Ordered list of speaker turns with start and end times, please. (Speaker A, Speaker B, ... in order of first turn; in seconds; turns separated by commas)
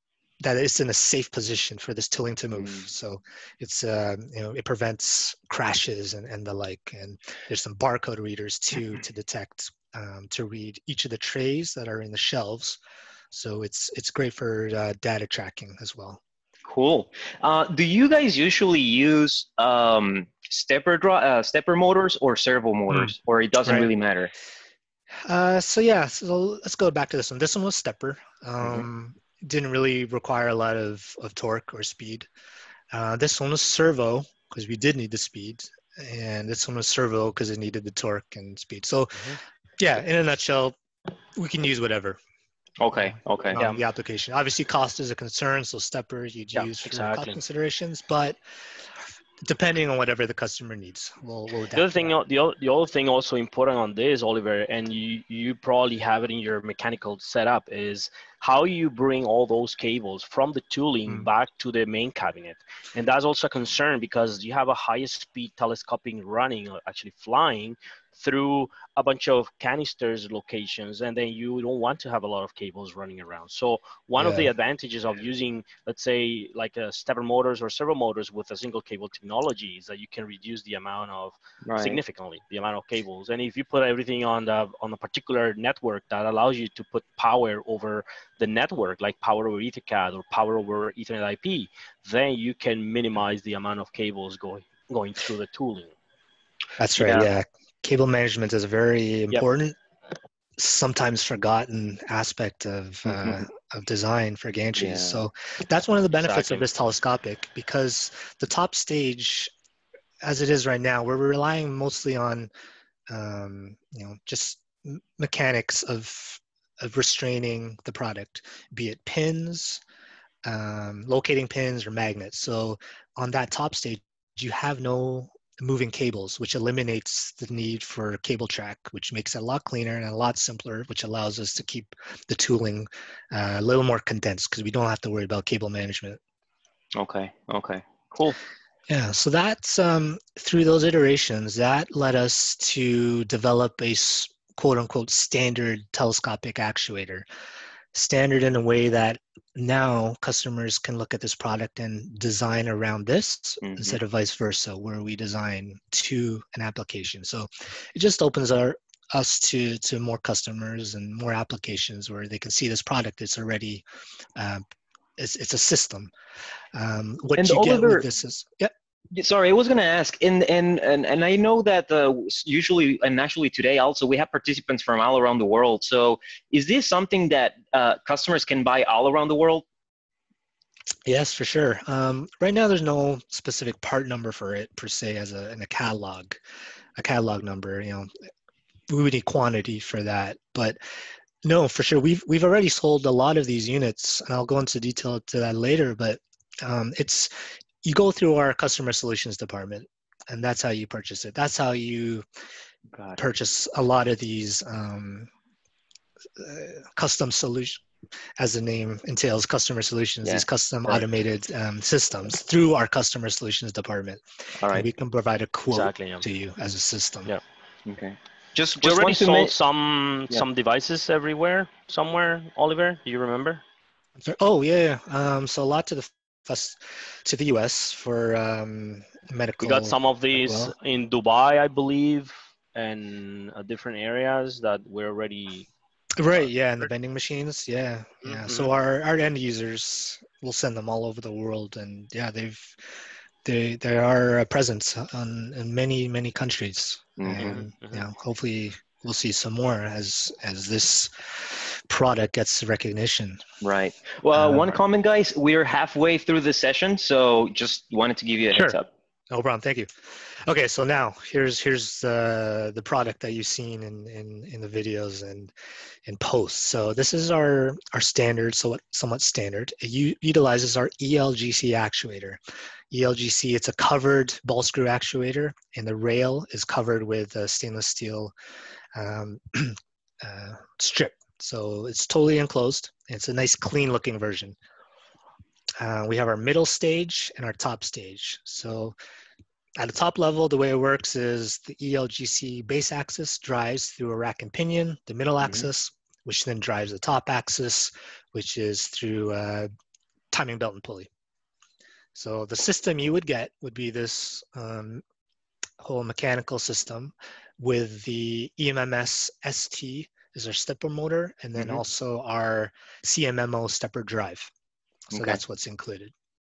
Speaker A: 0.4-12.8, Speaker B: 2.6-2.9, Speaker A: 13.3-16.2, Speaker B: 16.7-24.3, Speaker A: 25.2-32.3, Speaker B: 28.6-28.9, Speaker A: 32.9-40.8, Speaker A: 41.4-42.2, Speaker B: 42.8-43.6, Speaker A: 43.5-48.4, Speaker C: 43.6-43.8, Speaker C: 46.5-47.4, Speaker A: 49.4-52.1, Speaker C: 51.8-95.9, Speaker A: 74.2-74.5, Speaker B: 81.7-82.0, Speaker A: 96.8-99.8, Speaker C: 97.0-97.3, Speaker A: 100.6-109.5, Speaker B: 103.1-103.4, Speaker B: 104.8-105.2, Speaker C: 106.2-106.7, Speaker A: 110.2-112.5, Speaker A: 113.1-119.8, Speaker A: 120.5-136.2, Speaker B: 137.0-138.4, Speaker A: 138.9-147.3, Speaker A: 147.9-163.8, Speaker B: 153.6-154.0, Speaker A: 164.4-164.6, Speaker A: 165.2-166.1, Speaker A: 166.7-168.7, Speaker B: 167.4-168.1, Speaker B: 169.2-179.7, Speaker A: 181.1-186.4, Speaker A: 187.0-188.1, Speaker A: 188.9-190.8, Speaker A: 191.4-197.3, Speaker A: 197.8-202.2, Speaker B: 202.9-203.2, Speaker A: 203.2-205.3, Speaker A: 206.4-207.8, Speaker A: 208.4-217.3, Speaker B: 210.2-211.0, Speaker B: 214.6-214.9, Speaker C: 215.7-216.2, Speaker B: 217.9-219.5, Speaker C: 218.8-223.6, Speaker A: 224.2-230.7, Speaker C: 229.6-235.7, Speaker A: 236.2-242.8, Speaker C: 238.2-238.7, Speaker A: 243.4-253.4, Speaker B: 247.2-247.6, Speaker C: 247.4-248.1, Speaker B: 253.6-258.9, Speaker A: 254.3-254.8, Speaker A: 259.3-265.5, Speaker A: 266.1-272.4, Speaker A: 272.9-278.3, Speaker A: 278.9-284.6, Speaker A: 285.8-289.0, Speaker A: 289.8-299.7, Speaker A: 300.3-301.1, Speaker A: 302.1-305.0, Speaker A: 305.8-314.5, Speaker B: 311.6-311.8, Speaker A: 315.1-316.1, Speaker B: 315.1-315.4